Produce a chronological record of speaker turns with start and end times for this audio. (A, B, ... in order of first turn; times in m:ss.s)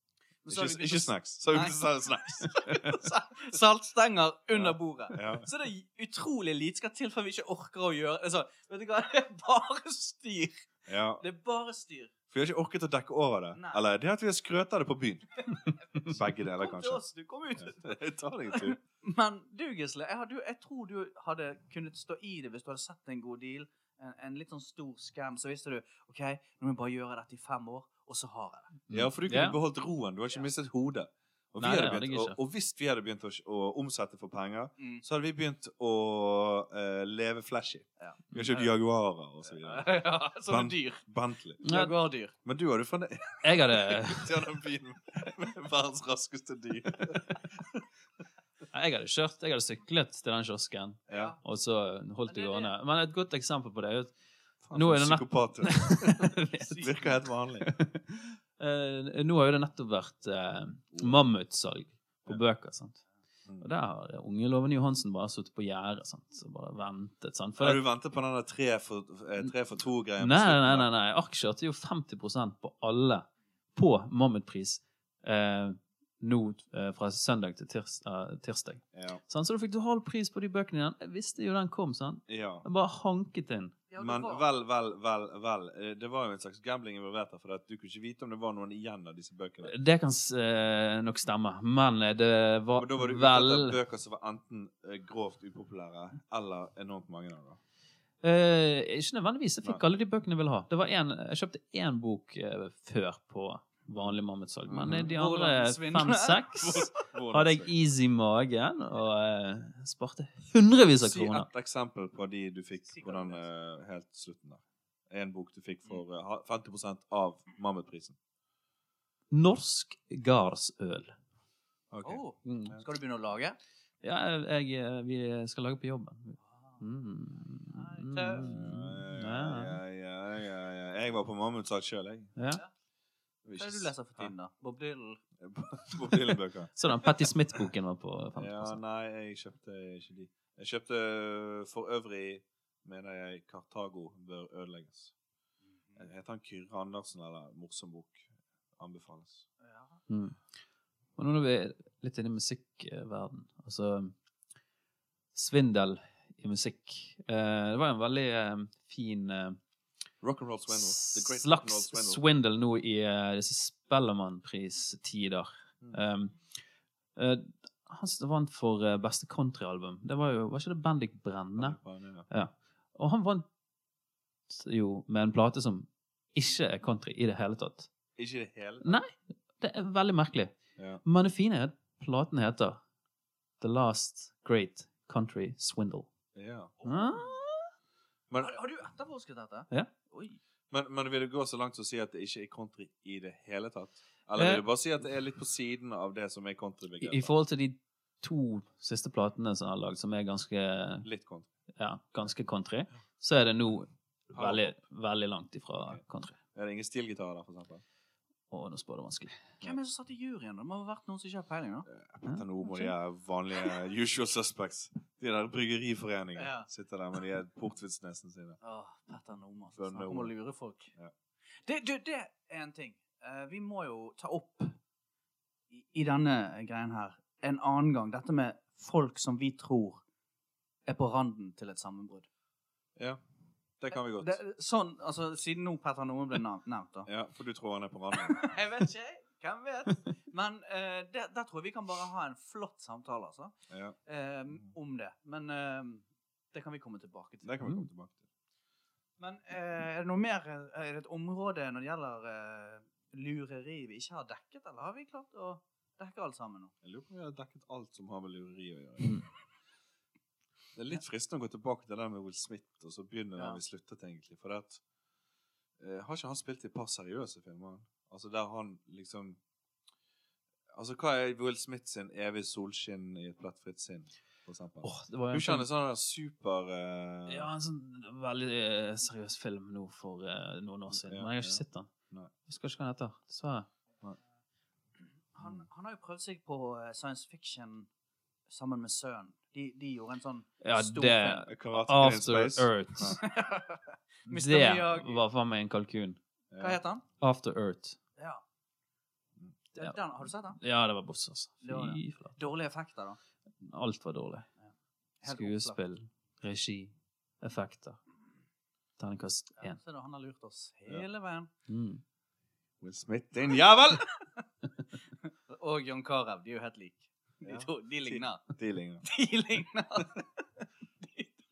0:00.4-0:12.1 A
0:00.5-0:03.0 B
0:04.5-0:05.5 B
0:10.9-0:11.2 B
0:12.3-0:15.4 B
0:13.5-0:13.8 A
0:15.4-0:18.0 A
0:16.0-0:17.0 B
0:17.6-0:18.8 B
0:18.5-0:28.7 A
0:28.9-0:29.6 C
0:28.9-0:41.6 B
0:31.6-0:32.4 C
0:38.0-0:38.7 A
0:39.5-0:41.0 A
0:41.6-0:42.0 C
0:41.6-0:42.3 A
0:42.4-0:47.8 B
0:43.4-0:44.4 C
0:48.7-0:54.1 C
0:51.1-0:51.4 B
0:51.1-0:51.4 A
0:52.3-0:52.7 A
0:54.6-0:57.7 B
0:54.7-0:57.0 C
0:57.6-1:03.0 C
1:03.6-1:07.8 C
1:07.6-1:10.9 B
1:10.2-1:23.8 C
1:18.9-1:19.2 B
1:22.3-1:22.6 B
1:23.9-1:24.4 A
1:24.0-1:29.7 B
1:29.6-1:33.8 C
1:32.8-1:37.6 B
1:38.2-1:51.5 C
1:43.9-1:45.1 B
1:45.0-1:46.9 A
1:46.6-1:47.7 B
1:51.0-1:58.2 B
1:52.9-1:53.4 A
1:59.3-2:01.2 C
2:01.9-2:02.8 B
2:02.0-2:03.6 A
2:02.4-2:02.8 C
2:04.0-2:09.8 C
2:06.5-2:06.8 A
2:07.6-2:08.5 A
2:08.3-2:12.3 B
2:12.4-2:12.6 C
2:13.4-2:14.3 B
2:13.6-2:15.2 A
2:15.4-2:17.1 B
2:16.8-2:18.8 C
2:18.4-2:25.1 B
2:26.0-2:29.4 B
2:29.6-2:30.0 A
2:30.1-2:30.4 C
2:31.2-2:34.1 C
2:35.3-2:39.6 C
2:40.2-2:42.2 B
2:40.7-2:46.5 C
2:47.2-2:51.8 C
2:51.6-2:52.3 B
2:52.3-2:53.4 C
2:54.5-2:57.9 C
2:58.2-2:59.0 B
2:58.8-3:02.8 C
3:00.8-3:01.0 B
3:03.6-3:06.1 C
3:06.3-3:06.8 B
3:06.8-3:07.1 A
3:06.8-3:07.7 C
3:08.3-3:08.6 B
3:08.4-3:10.4 A
3:10.7-3:17.3 B
3:14.4-3:14.6 C
3:17.0-3:21.0 C
3:21.0-3:21.5 B
3:21.8-3:26.4 C
3:24.3-3:24.7 B
3:26.5-3:27.8 B
3:28.5-3:29.5 C
3:29.6-3:31.9 A
3:31.8-3:38.6 B
3:32.2-3:32.9 C
3:36.3-3:36.7 A
3:38.6-3:40.9 A
3:39.8-3:40.3 B
3:41.6-3:44.8 A
3:45.7-3:50.0 A
3:50.8-3:52.3 A
3:53.8-3:54.4 B
3:53.9-3:57.1 A
3:57.1-3:58.6 B
3:58.1-4:07.6 A
4:03.7-4:04.0 B
4:07.4-4:08.2 B
4:09.2-4:16.7 A
4:16.8-4:19.2 B
4:20.7-4:24.8 B
4:25.8-4:29.4 B
4:30.7-4:37.5 B
4:34.8-4:35.6 C
4:37.3-4:41.9 C
4:40.9-4:42.3 B
4:42.5-4:43.7 C
4:45.3-4:47.9 A
4:48.5-4:51.5 A
4:50.6-4:53.2 C
4:51.5-4:53.2 B
4:53.1-4:55.2 A
4:54.3-4:56.2 C
4:56.5-4:56.8 B
4:56.6-4:57.0 A
4:57.2-4:58.0 C
4:58.2-4:58.4 A
4:59.7-5:00.6 A
5:00.5-5:02.4 C
5:01.6-5:03.2 A
5:03.6-5:04.5 C
5:05.2-5:05.8 A
5:05.2-5:08.0 C
5:09.0-5:09.8 C
5:09.6-5:11.5 A
5:11.7-5:12.0 C
5:12.8-5:14.1 B
5:15.2-5:18.4 A
5:17.4-5:19.0 B
5:19.0-5:20.4 A
5:21.0-5:21.3 A